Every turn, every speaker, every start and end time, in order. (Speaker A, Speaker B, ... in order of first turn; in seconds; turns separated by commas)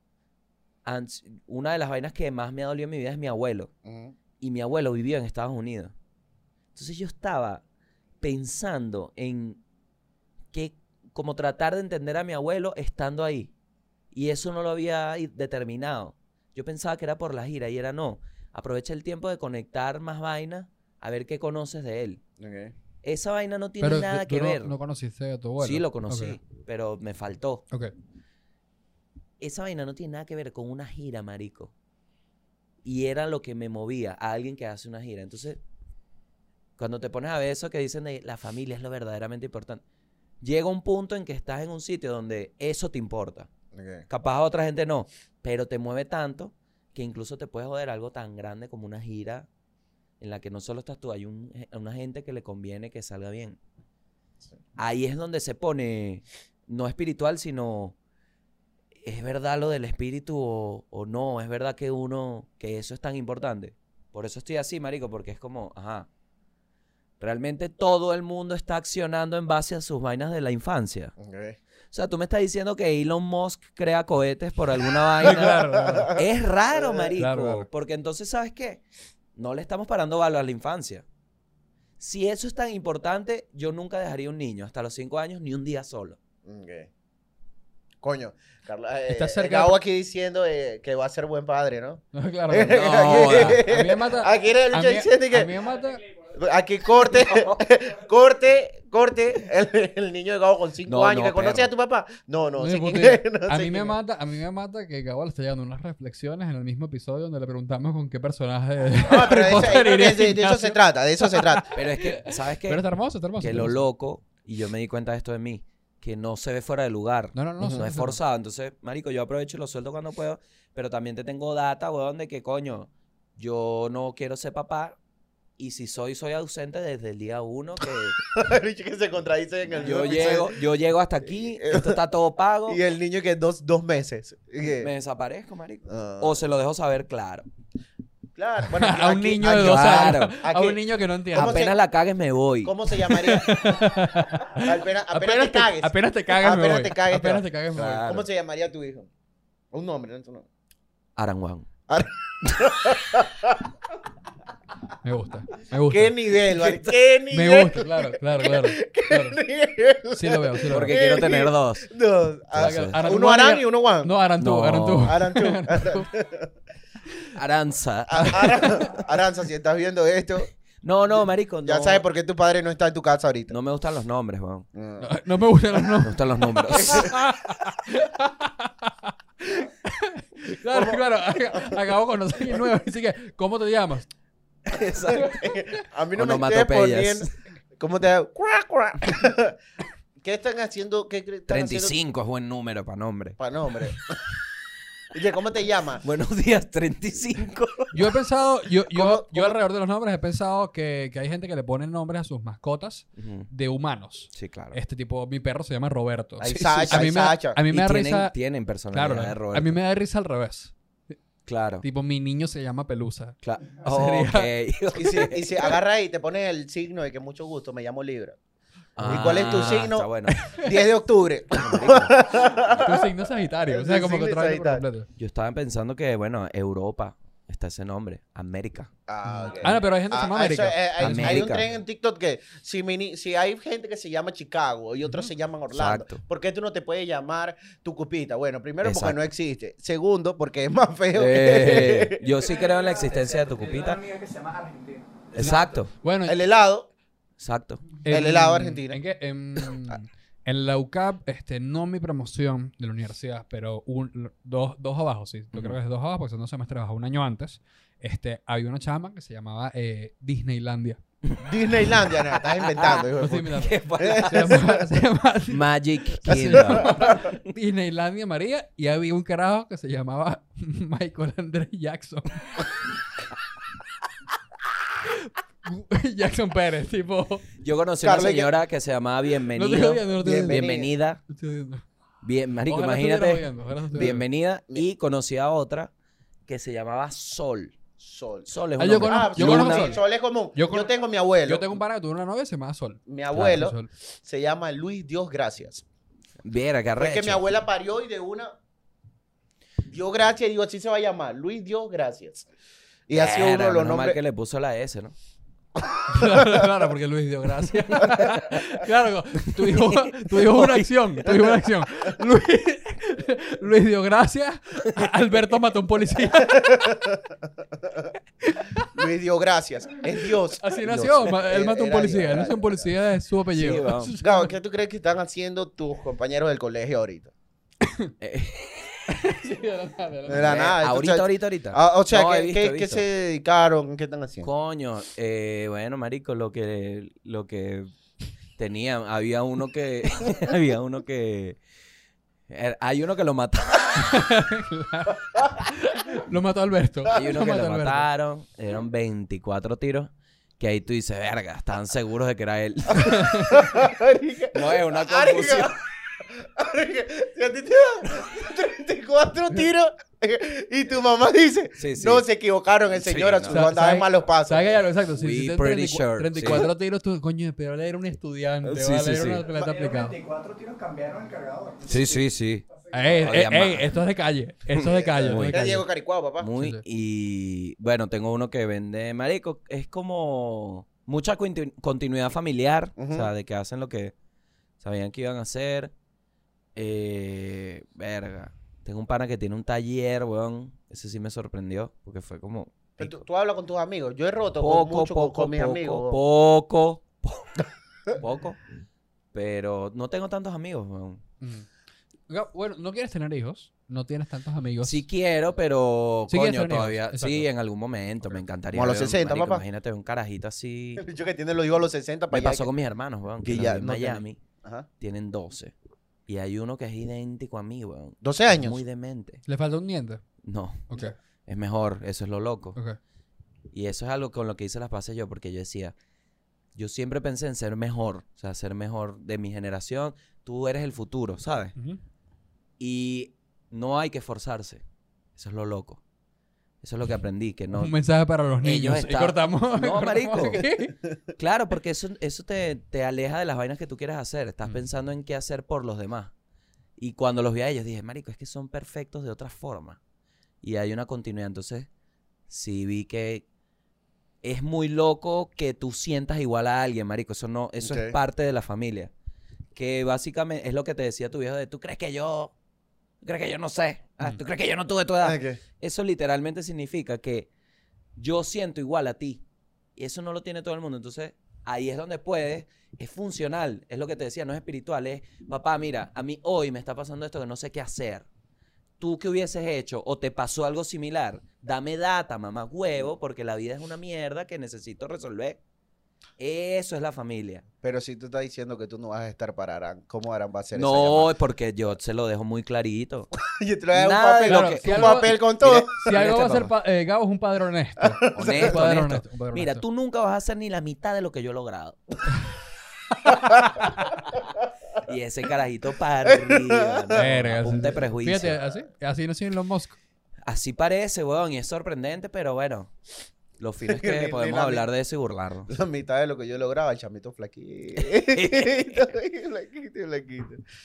Speaker A: 0.8-3.7, Speaker B: 3.8-4.1, Speaker A: 4.4-5.9, Speaker A: 6.7-7.6, Speaker A: 8.2-9.6, Speaker A: 10.5-13.5, Speaker A: 14.1-22.2, Speaker B: 22.4-22.7, Speaker A: 23.0-24.7, Speaker C: 23.8-26.4, Speaker A: 25.6-27.6, Speaker A: 29.4-31.7, Speaker A: 32.9-35.6, Speaker A: 36.8-39.8, Speaker A: 40.4-43.5, Speaker B: 43.7-44.0, Speaker A: 44.1-49.5, Speaker A: 50.2-53.6, Speaker A: 54.8-58.0, Speaker A: 59.0-66.1, Speaker A: 67.2-71.1, Speaker B: 71.2-71.6, Speaker A: 71.9-78.8, Speaker C: 75.2-76.1, Speaker B: 75.7-77.1, Speaker C: 77.2-77.7, Speaker A: 79.4-81.0, Speaker A: 82.0-86.2, Speaker B: 86.4-86.9, Speaker B: 88.0-95.5, Speaker C: 89.1-89.8, Speaker C: 92.1-96.0, Speaker A: 92.7-93.7, Speaker B: 96.2-104.0, Speaker A: 100.9-101.7, Speaker C: 102.6-113.8, Speaker B: 109.0-111.7, Speaker A: 111.7-112.8, Speaker A: 113.4-125.0, Speaker C: 117.3-118.2, Speaker A: 125.6-128.2, Speaker B: 128.3-130.6, Speaker A: 129.7-132.8, Speaker B: 131.4-132.0, Speaker B: 132.7-134.9, Speaker A: 134.8-137.5, Speaker B: 135.9-136.4, Speaker B: 138.4-140.8, Speaker C: 138.6-141.6, Speaker A: 139.4-140.4, Speaker B: 141.3-141.8, Speaker A: 141.3-142.8, Speaker B: 142.6-149.1, Speaker C: 143.1-148.1, Speaker A: 147.8-148.3, Speaker B: 149.7-150.4, Speaker A: 151.2-151.7, Speaker B: 151.9-153.7, Speaker C: 155.0-156.3, Speaker B: 155.9-164.1, Speaker A: 156.6-156.9, Speaker C: 157.3-159.4, Speaker C: 160.1-161.0, Speaker A: 160.7-161.9, Speaker A: 162.5-163.0, Speaker C: 162.6-166.1, Speaker A: 164.4-165.2, Speaker B: 165.0-166.5, Speaker A: 167.3-168.8, Speaker B: 168.1-170.5, Speaker C: 168.4-168.8, Speaker A: 170.8-172.0, Speaker B: 171.6-173.6, Speaker A: 173.5-174.7, Speaker B: 174.7-175.1, Speaker C: 175.0-184.1, Speaker A: 176.0-177.1, Speaker B: 176.8-177.1, Speaker B: 180.6-181.8, Speaker B: 184.7-189.6, Speaker A: 184.7-185.4, Speaker A: 186.1-187.3, Speaker B: 190.2-191.9, Speaker A: 191.5-193.9, Speaker B: 193.4-194.2, Speaker B: 195.1-196.1, Speaker A: 196.0-198.1, Speaker C: 197.9-208.3, Speaker B: 198.9-199.6, Speaker A: 203.2-203.5, Speaker A: 204.3-204.8, Speaker B: 206.4-207.6, Speaker A: 206.4-207.1, Speaker A: 207.7-209.8, Speaker C: 208.9-210.7, Speaker A: 211.4-211.8, Speaker C: 211.8-214.5, Speaker A: 213.4-215.7, Speaker B: 214.9-218.4, Speaker A: 219.0-220.4, Speaker B: 219.0-223.1, Speaker C: 219.0-219.8, Speaker C: 220.3-220.7, Speaker A: 221.5-222.2, Speaker C: 222.6-225.1, Speaker B: 223.7-224.8, Speaker A: 225.2-228.9, Speaker B: 229.1-242.2, Speaker C: 229.6-231.6, Speaker A: 231.0-231.7, Speaker A: 235.7-236.2, Speaker A: 238.8-239.2, Speaker A: 241.1-244.0, Speaker D: 242.3-245.8, Speaker A: 245.3-245.9, Speaker C: 245.4-246.4, Speaker B: 246.2-246.9, Speaker A: 247.4-247.9, Speaker C: 248.1-261.0, Speaker B: 248.1-249.0, Speaker B: 261.4-264.8, Speaker A: 262.5-264.6, Speaker C: 263.2-265.6, Speaker A: 265.5-267.5, Speaker C: 266.2-272.6, Speaker B: 266.5-267.2, Speaker C: 275.1-277.4, Speaker A: 277.6-281.2, Speaker B: 278.0-278.5, Speaker C: 279.6-280.7, Speaker B: 280.1-280.9, Speaker C: 281.3-281.8, Speaker A: 282.2-285.9, Speaker C: 282.7-284.2, Speaker B: 283.9-284.8, Speaker A: 286.5-287.8, Speaker B: 288.0-288.5, Speaker A: 288.5-290.0, Speaker C: 288.8-290.0, Speaker B: 289.0-291.7, Speaker C: 290.6-290.9, Speaker C: 291.4-293.9, Speaker B: 293.1-295.8, Speaker A: 296.4-297.4, Speaker B: 297.0-298.5, Speaker B: 299.9-302.5, Speaker B: 303.1-304.2, Speaker A: 303.1-305.1, Speaker B: 305.8-306.6, Speaker C: 306.1-316.9, Speaker A: 309.6-310.9, Speaker B: 316.3-318.1, Speaker C: 318.4-318.9, Speaker B: 318.9-322.9, Speaker C: 320.3-324.5, Speaker A: 323.6-324.1, Speaker B: 324.2-327.3, Speaker C: 327.8-328.1, Speaker A: 328.2-329.0, Speaker C: 329.1-330.6, Speaker B: 330.3-334.5, Speaker A: 330.4-333.0, Speaker A: 334.4-337.9, Speaker A: 338.6-341.6, Speaker A: 342.5-344.3, Speaker C: 344.1-348.1, Speaker A: 347.1-353.8, Speaker C: 353.0-353.6, Speaker B: 353.5-364.8, Speaker A: 354.5-355.8, Speaker A: 361.8-362.2, Speaker A: 362.9-363.6, Speaker C: 363.5-370.2, Speaker A: 365.1-366.7, Speaker A: 368.6-369.4, Speaker D: 369.4-372.2, Speaker A: 371.8-373.9, Speaker C: 372.9-375.9, Speaker A: 374.7-375.8, Speaker B: 375.0-376.5, Speaker A: 376.4-384.1, Speaker C: 376.6-376.8, Speaker B: 383.0-383.3, Speaker A: 384.8-385.9, Speaker A: 386.7-393.2, Speaker B: 393.0-396.2, Speaker A: 394.6-398.6, Speaker A: 399.3-401.2, Speaker C: 401.4-401.7, Speaker C: 402.3-405.0, Speaker A: 404.8-411.0, Speaker C: 406.3-407.5, Speaker B: 408.7-409.6, Speaker B: 411.0-412.7, Speaker A: 412.3-414.4, Speaker B: 413.4-414.9, Speaker A: 415.0-415.7, Speaker A: 416.3-419.4, Speaker B: 418.2-418.8, Speaker C: 419.5-420.2, Speaker A: 420.4-422.8, Speaker A: 423.7-425.9, Speaker A: 426.7-431.7, Speaker A: 432.8-434.8, Speaker A: 435.4-436.0, Speaker A: 436.8-437.9, Speaker C: 437.7-440.9, Speaker A: 438.6-440.6, Speaker A: 441.4-446.3, Speaker A: 447.0-450.0, Speaker A: 450.6-451.9, Speaker A: 452.5-453.4, Speaker A: 454.4-459.1, Speaker B: 457.8-458.1, Speaker A: 459.8-462.5, Speaker A: 463.2-467.5, Speaker B: 465.2-465.6, Speaker A: 468.2-469.4, Speaker A: 470.0-478.3, Speaker A: 479.0-485.6, Speaker A: 486.4-487.6, Speaker B: 487.8-491.3, Speaker A: 490.7-493.3, Speaker B: 493.4-496.0, Speaker A: 493.9-496.7, Speaker C: 494.4-495.4, Speaker C: 495.9-499.8, Speaker B: 498.0-498.8, Speaker A: 498.3-502.2, Speaker C: 503.2-503.9, Speaker B: 503.3-503.8, Speaker A: 505.0-508.6, Speaker B: 506.2-507.3, Speaker C: 507.1-510.0, Speaker A: 510.4-512.9, Speaker A: 513.6-515.7, Speaker B: 513.8-514.9, Speaker B: 515.7-520.6, Speaker A: 518.0-519.1